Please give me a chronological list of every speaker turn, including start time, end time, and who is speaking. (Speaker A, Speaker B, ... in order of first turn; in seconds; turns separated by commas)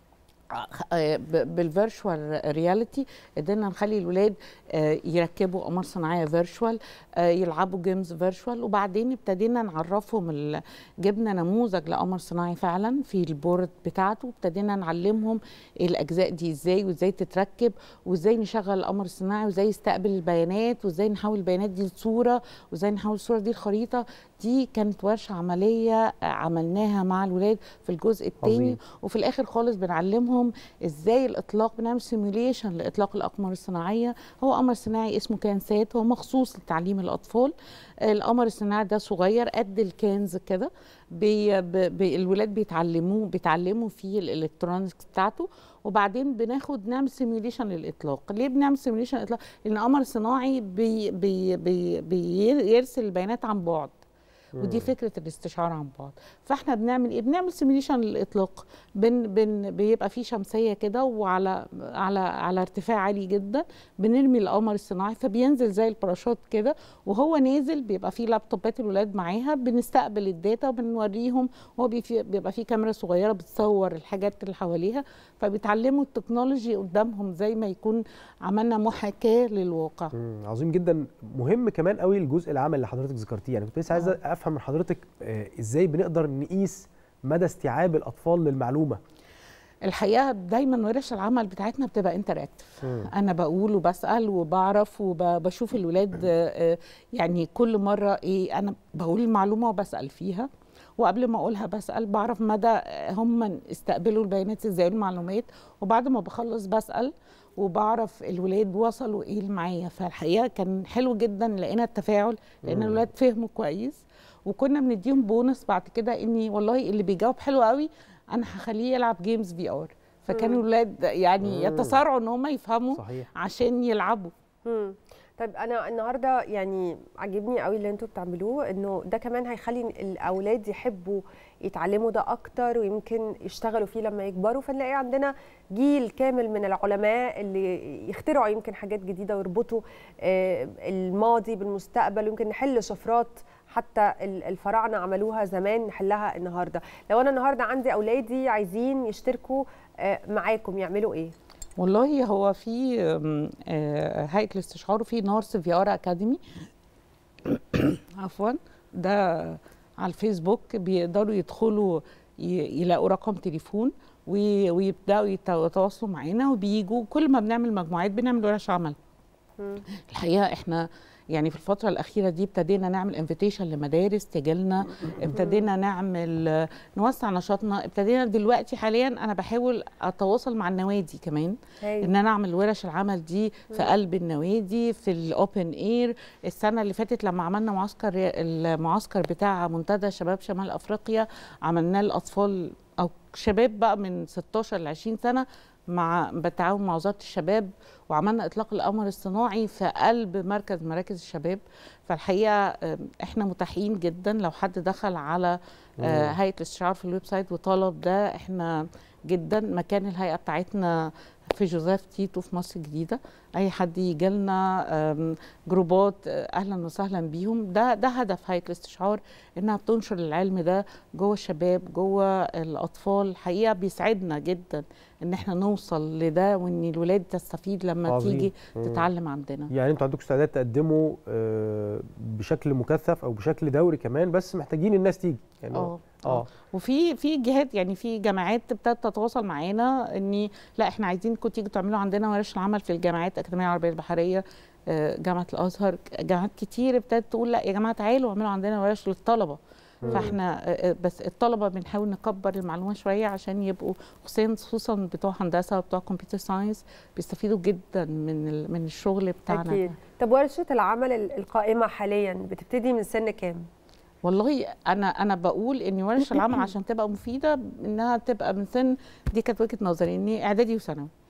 Speaker A: 0.5-37.5, Speaker B: 28.4-28.8, Speaker A: 38.0-54.0, Speaker B: 54.6-54.9, Speaker A: 54.6-80.1, Speaker B: 80.2-89.0, Speaker A: 89.9-124.3, Speaker B: 92.8-93.1, Speaker B: 112.6-113.0, Speaker C: 120.3-120.6, Speaker B: 121.4-122.0, Speaker B: 122.9-123.3, Speaker C: 124.7-151.3, Speaker A: 151.8-156.4, Speaker A: 157.5-169.0, Speaker A: 170.0-229.7, Speaker C: 175.3-175.7, Speaker C: 181.8-182.1, Speaker B: 206.0-206.3, Speaker B: 228.1-229.1, Speaker B: 229.7-236.5, Speaker A: 235.7-259.9, Speaker B: 250.0-250.3, Speaker C: 250.1-250.3, Speaker C: 259.5-263.6, Speaker A: 264.2-271.1